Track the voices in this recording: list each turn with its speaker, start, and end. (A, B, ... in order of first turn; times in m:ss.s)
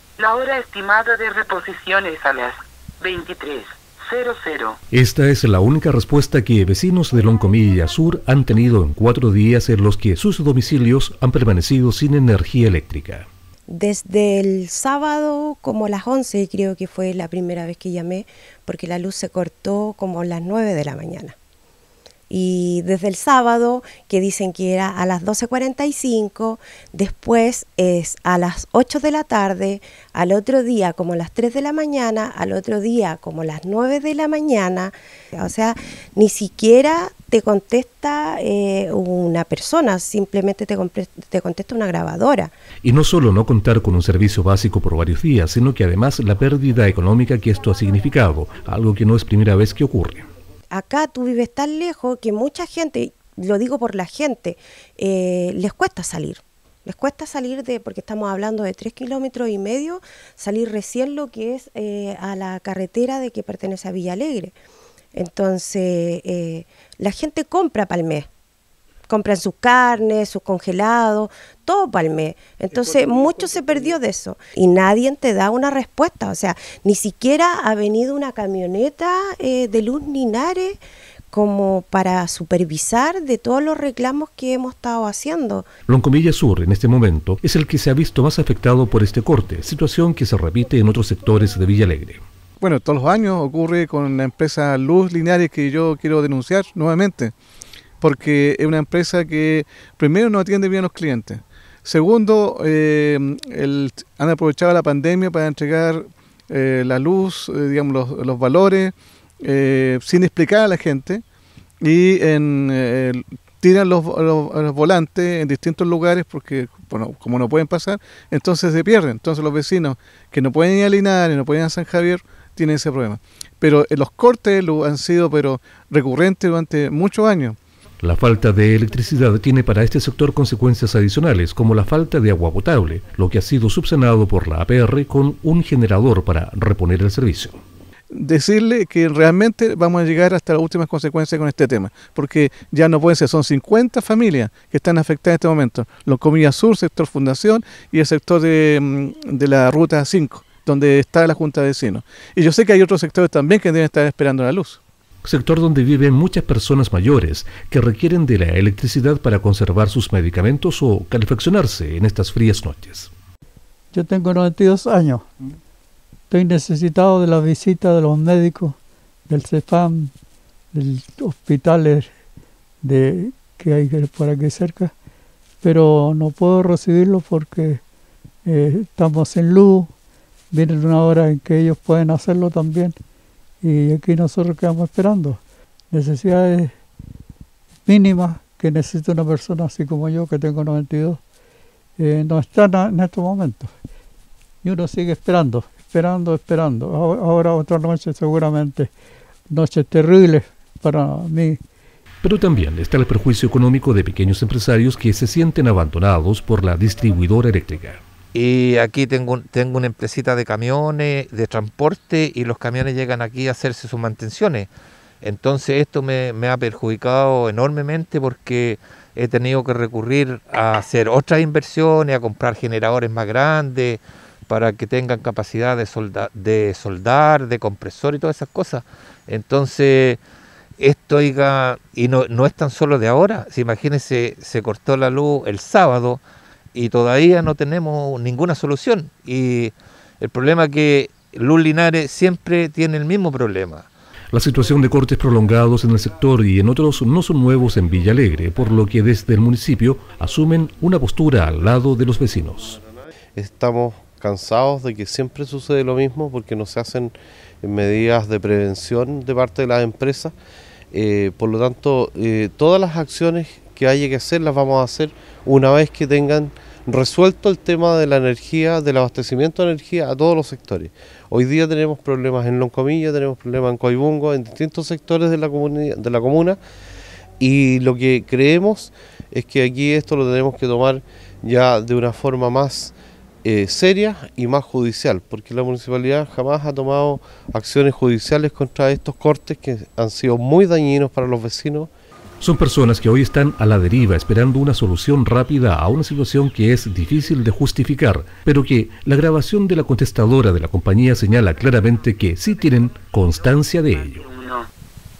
0:00.2-0:04.8 A
0:04.9-0:13.3 B
0:13.7-0:21.3 C
0:22.3-0:42.5 C
0:42.8-0:50.3 B
0:50.7-1:04.5 C
1:05.1-1:08.3 C
1:09.1-1:20.8 C
1:13.0-1:13.9 D
1:21.3-1:25.6 C
1:25.9-1:32.2 B
1:32.6-1:37.3 D
1:38.0-1:51.2 D
1:51.8-2:07.6 D
2:08.0-2:17.6 B
2:18.1-2:34.8 D
2:35.2-2:43.1 B
2:43.9-2:45.2 E
2:46.3-2:48.8 E
2:49.3-2:50.1 E
2:50.7-2:52.1 E
2:52.8-2:54.9 E
2:55.6-2:57.8 E
2:58.4-2:59.9 E
3:00.5-3:03.0 E
3:03.6-3:05.4 E
3:05.9-3:06.7 E
3:07.8-3:11.2 E
3:12.0-3:13.7 E
3:14.6-3:18.9 E
3:19.5-3:21.6 E
3:22.2-3:28.0 B
3:28.3-3:34.7 F
3:35.2-3:50.2 F
3:50.8-3:56.2 F
3:56.7-4:03.9 F
4:04.3-4:12.8 B
4:13.3-4:20.3 G
4:20.9-4:36.6 G
4:37.4-4:51.9 G
4:52.4-5:04.2 B
5:04.2-5:04.7 A